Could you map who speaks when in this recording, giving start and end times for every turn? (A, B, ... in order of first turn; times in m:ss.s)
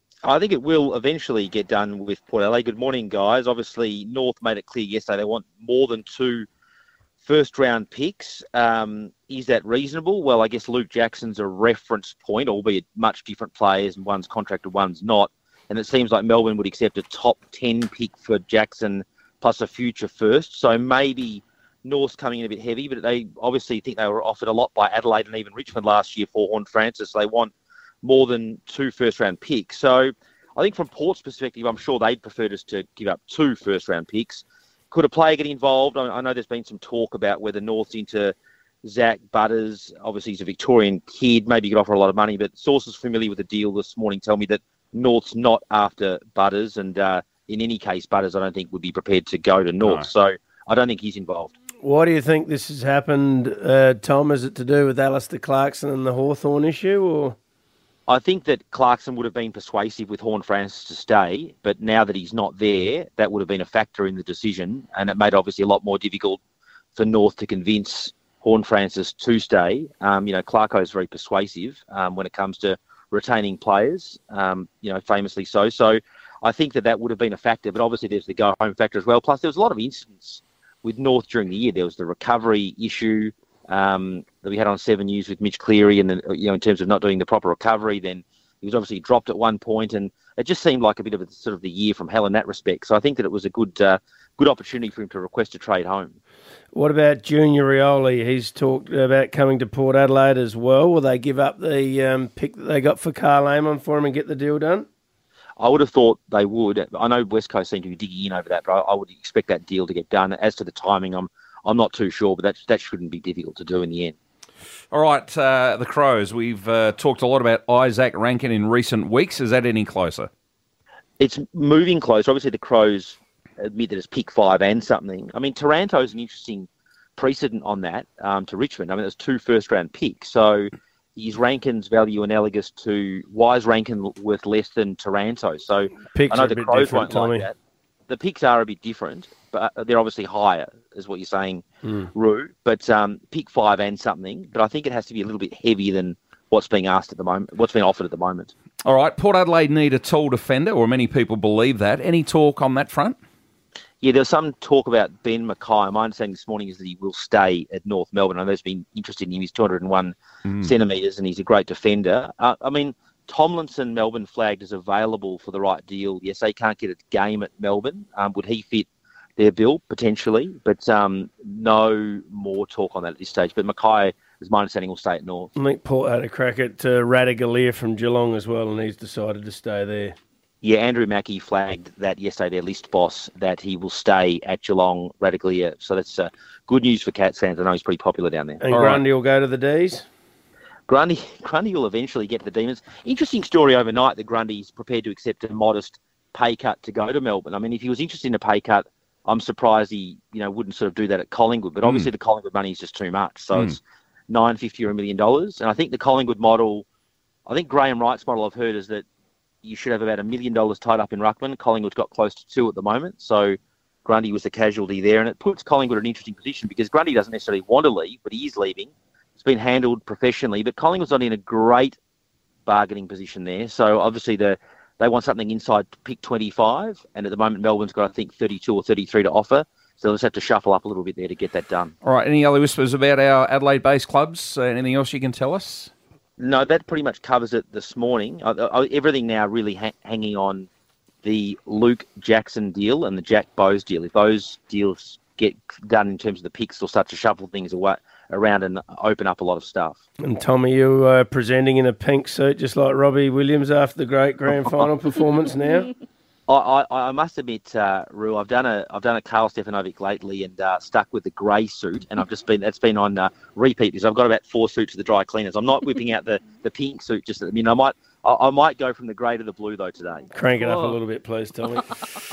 0:00.2-0:06.5 A
0:07.2-0:27.5 A
0:28.0-0:51.5 A
0:49.8-0:50.1 B
0:51.8-0:57.4 C
0:58.1-1:06.4 A
1:07.0-1:36.2 A
1:36.7-1:44.9 C
1:45.6-1:54.2 A
1:54.9-2:00.3 B
2:01.2-2:17.6 A
2:16.0-2:17.5 C
2:18.1-2:28.5 A
2:21.8-2:22.1 C
2:28.8-2:33.2 B
2:34.0-2:55.5 A
2:40.5-2:40.7 B
2:55.6-3:00.2 C
3:00.6-3:08.6 A
3:08.6-3:10.1 C
3:08.7-3:09.0 B
3:10.9-3:26.8 A
3:21.8-3:22.1 B
3:27.5-3:29.0 A
3:29.6-3:42.0 A
3:42.7-3:51.9 A
3:52.0-3:55.9 B
3:56.4-4:00.7 A
4:01.2-4:10.0 A
4:10.2-4:15.9 C
4:16.5-4:30.3 A
4:30.3-4:31.8 C